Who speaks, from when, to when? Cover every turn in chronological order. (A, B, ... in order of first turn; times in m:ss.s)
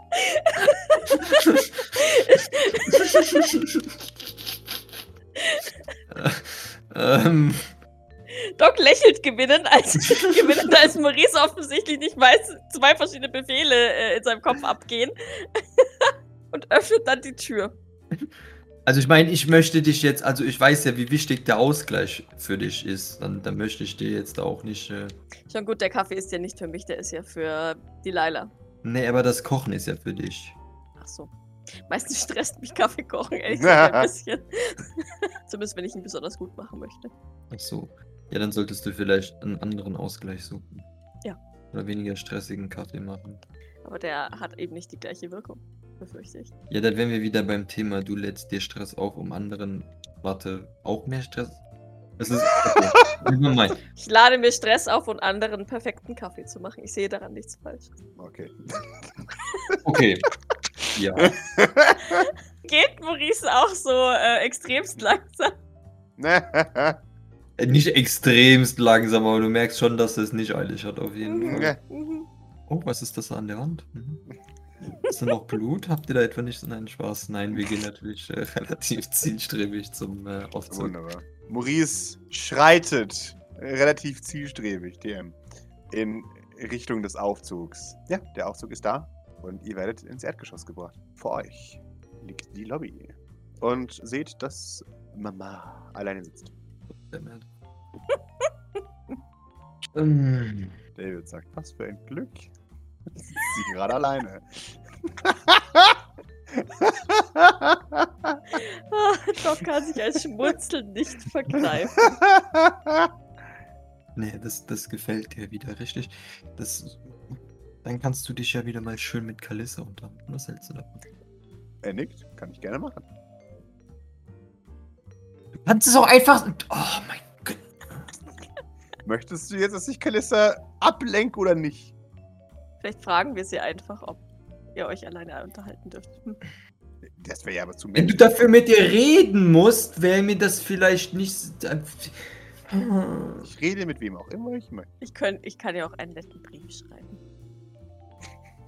0:00.1-0:03.5 A
0:01.1-0:01.8 B
0:02.9-0:03.9 B
0:05.4-0:05.6 A
0:06.1-0:07.7 B
0:08.3-0:17.8 A
0:10.3-0:10.6 B
0:18.9-0:25.2 B
0:25.5-0:28.5 A
0:28.8-0:30.6 B
0:31.0-0:31.3 A
0:31.9-0:37.1 A
0:33.5-0:34.1 C
0:37.5-0:40.9 B
0:41.7-0:43.4 B
0:43.8-0:46.5 A
0:46.7-0:51.6 B
0:52.2-0:53.8 B
0:52.4-0:53.2 C
0:54.0-0:58.0 A
0:58.2-0:59.8 C
0:59.8-1:00.3 B
1:00.9-1:01.4 B
1:01.2-1:02.3 C
1:02.6-1:05.5 A
1:06.2-1:07.0 C
1:07.6-1:11.7 B
1:11.2-1:12.3 A
1:11.4-1:11.8 C
1:12.7-1:14.2 B
1:15.0-1:21.0 B
1:20.7-1:25.4 C
1:25.9-1:36.5 C
1:36.9-1:37.5 B
1:40.0-1:40.8 B
1:41.0-1:42.5 C
1:43.3-1:46.0 C
1:46.5-1:48.4 C
1:48.5-1:52.2 A
1:52.0-1:53.1 C
1:54.2-2:01.1 B
2:01.8-2:03.1 C
2:05.6-2:08.0 B
2:09.0-2:11.9 C
2:12.8-2:14.2 A
2:14.8-2:16.4 A
2:17.0-2:18.4 C
2:18.0-2:23.5 B
2:23.4-2:24.9 C
2:25.0-2:27.2 A